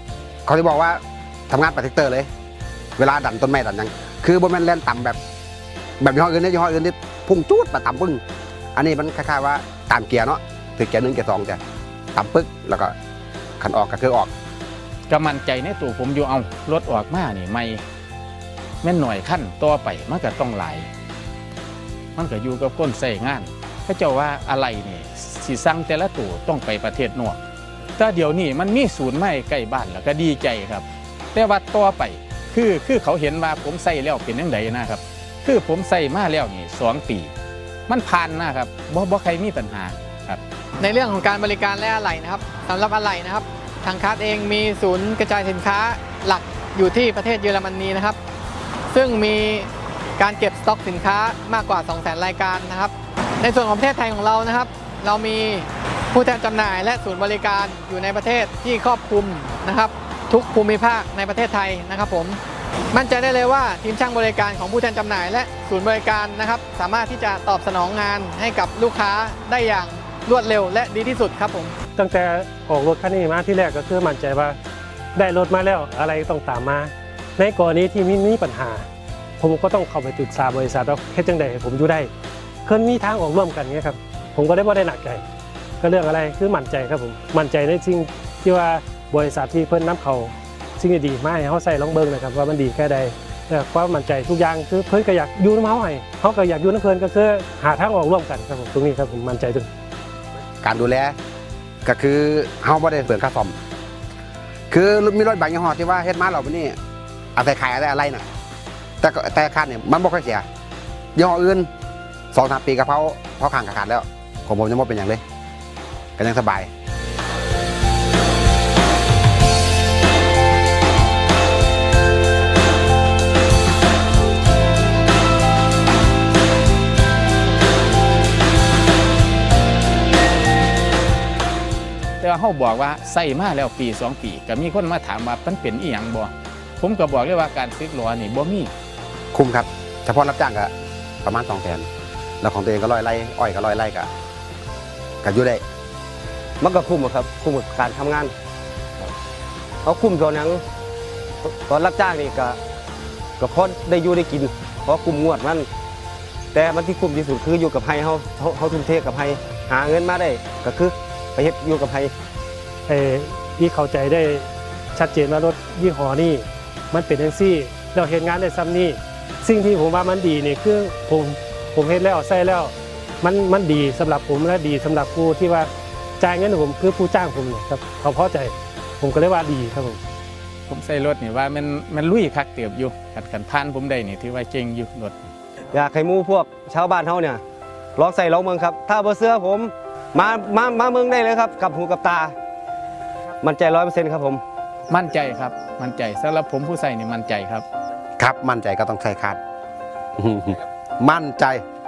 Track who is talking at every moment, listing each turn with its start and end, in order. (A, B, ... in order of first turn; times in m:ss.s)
0:00.5-0:02.3 A
0:03.0-0:05.2 A
0:06.0-0:08.2 A
0:08.8-0:11.6 A
0:12.1-0:12.9 A
0:13.6-0:14.3 A
0:15.1-0:17.8 B
0:18.8-0:20.9 B
0:22.2-0:27.4 B
0:28.0-0:37.3 B
0:37.9-0:40.4 B
0:40.8-0:48.2 C
0:48.9-1:02.4 C
1:02.9-1:11.7 C
1:12.0-1:14.6 D
1:15.2-1:18.9 D
1:19.4-1:22.1 D
1:22.6-1:25.2 D
1:25.8-1:39.7 D
1:40.6-1:41.2 A
1:41.8-1:43.6 A
1:44.7-1:46.8 A
1:47.4-1:48.2 A
1:49.0-1:50.4 A
1:51.2-1:51.7 A
1:52.3-1:55.2 A
1:56.2-1:56.7 A
2:12.2-2:18.7 B
2:19.3-2:20.7 A
2:21.2-2:21.9 A
2:22.4-2:24.1 A
2:25.2-2:25.6 A
2:26.6-2:28.3 E
2:29.8-2:30.6 E
2:31.4-2:32.6 E
2:33.4-2:35.7 E
2:36.5-2:42.1 E
2:42.9-3:00.0 D
3:00.7-3:05.3 B
3:05.7-3:07.4 E
3:08.0-3:12.3 E
3:13.4-3:14.4 E
3:14.9-3:17.6 B
3:18.2-3:19.4 A
3:20.2-3:21.6 A